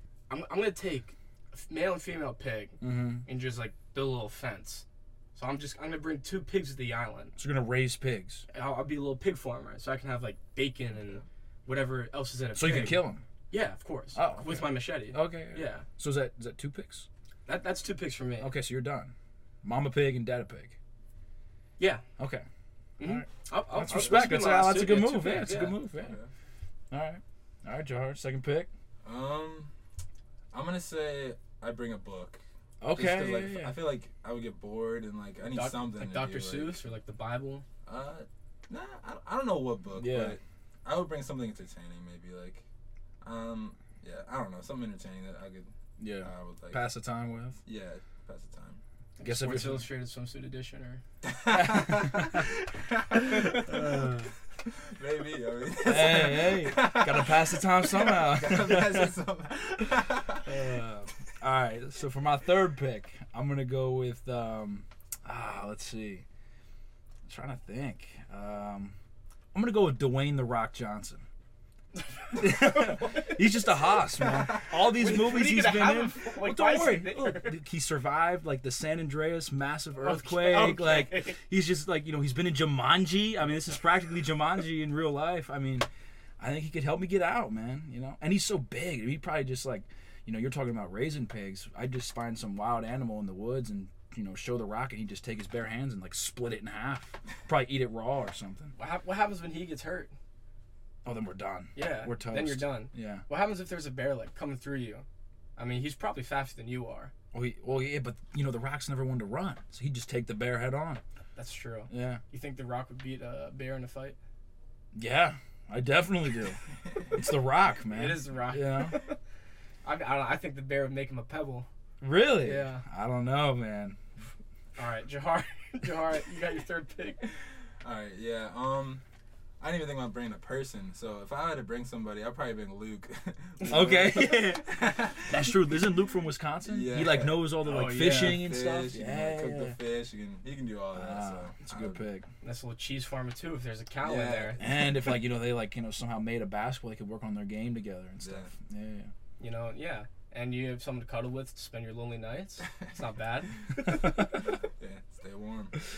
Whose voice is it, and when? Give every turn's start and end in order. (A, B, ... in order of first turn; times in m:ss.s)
0:00.3-0:07.4 A
0:02.8-0:03.3 B
0:07.4-0:08.4 B
0:08.5-0:15.9 A
0:12.5-0:13.2 B
0:14.1-0:17.1 B
0:17.4-0:18.5 A
0:18.4-0:20.8 B
0:21.8-0:22.0 A
0:22.2-0:22.4 B
0:23.0-0:25.8 A
0:23.0-0:26.1 B
0:26.0-0:26.3 C
0:26.9-0:28.7 B
0:29.0-0:29.7 C
0:30.5-0:32.4 C
0:32.8-0:33.8 B
0:32.9-0:36.9 C
0:35.5-0:37.6 A
0:37.8-0:42.6 C
0:40.0-0:40.4 B
0:43.2-0:46.8 C
0:46.0-0:47.6 B
0:47.6-0:48.8 C
0:49.2-0:51.0 A
0:49.2-0:49.9 B
0:51.2-0:52.4 C
0:51.5-0:52.5 B
0:53.1-0:54.3 B
0:54.6-1:00.5 C
0:55.8-0:59.1 B
1:00.4-1:06.2 B
1:07.2-1:09.0 B
1:09.5-1:11.2 B
1:12.4-1:25.9 B
1:12.7-1:12.9 A
1:14.9-1:17.6 A
1:20.0-1:21.4 A
1:26.4-1:38.7 B
1:38.7-1:40.1 A
1:41.0-1:43.2 B
1:41.7-1:45.0 A
1:45.6-1:47.1 A
1:47.3-1:51.0 B
1:51.4-1:54.2 A
1:51.9-1:52.2 B
1:54.9-1:59.0 B
1:57.9-1:59.2 A
1:59.8-2:01.7 A
2:02.0-2:04.0 B
2:02.4-2:02.8 A
2:04.8-2:07.2 A
2:07.8-2:09.0 C
2:09.6-2:15.5 C
2:13.7-2:19.8 B
2:16.6-2:22.0 C
2:17.6-2:18.4 A
2:20.9-2:22.3 B
2:22.4-2:24.6 A
2:24.0-2:24.8 C
2:24.6-2:29.1 B
2:28.2-2:28.5 C
2:29.4-2:33.7 A
2:33.9-2:34.4 B
2:34.8-2:35.8 C